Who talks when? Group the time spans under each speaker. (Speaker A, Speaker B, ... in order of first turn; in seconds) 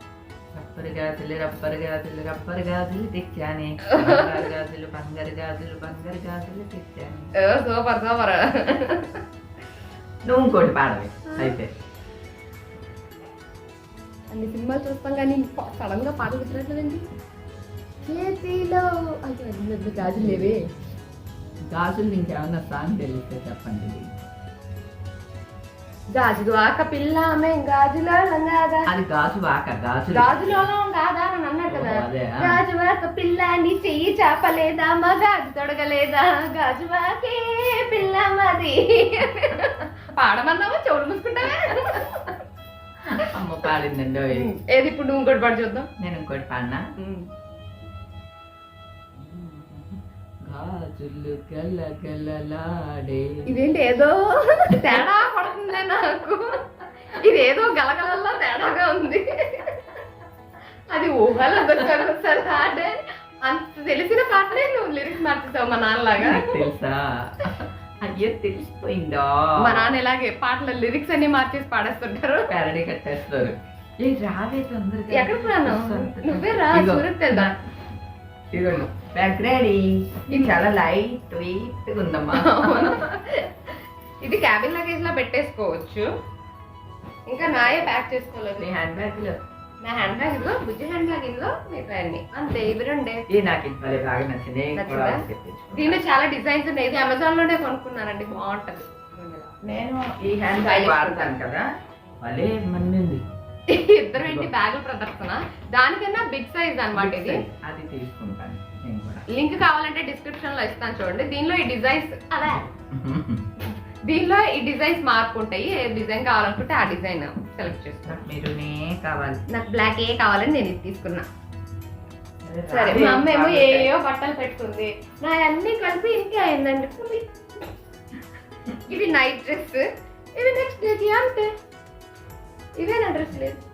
Speaker A: 0.6-7.3, 10.2-11.7, 20.3-20.5, 21.6-24.1, 28.9-30.7, 31.7-32.6, 43.1-44.5, 46.0-46.8, 49.2-53.5, 54.7-55.1, 66.2-70.0, 72.5-77.5, 78.5-83.0, 88.6-89.4, 93.3-96.1, 99.6-101.7, 102.2-103.2, 104.2-104.5, 107.0-109.2, 112.5-113.4, 118.1-119.4, 122.4-123.9
Speaker B: 3.9-4.4, 7.4-9.2, 11.3-11.6, 14.3-17.0, 18.1-20.7, 26.1-28.9, 30.1-42.3, 44.3-45.9, 47.0-47.3, 53.5-59.8, 60.9-66.6, 69.6-72.5, 75.1-77.5, 82.3-83.5, 84.2-86.1, 87.3-88.7, 89.8-93.2, 94.8-99.5, 100.6-101.3, 103.7-107.4, 109.3-112.7, 114.1-118.2, 119.5-121.2, 122.7-127.6, 128.9-129.8, 130.4-131.5, 132.8-133.6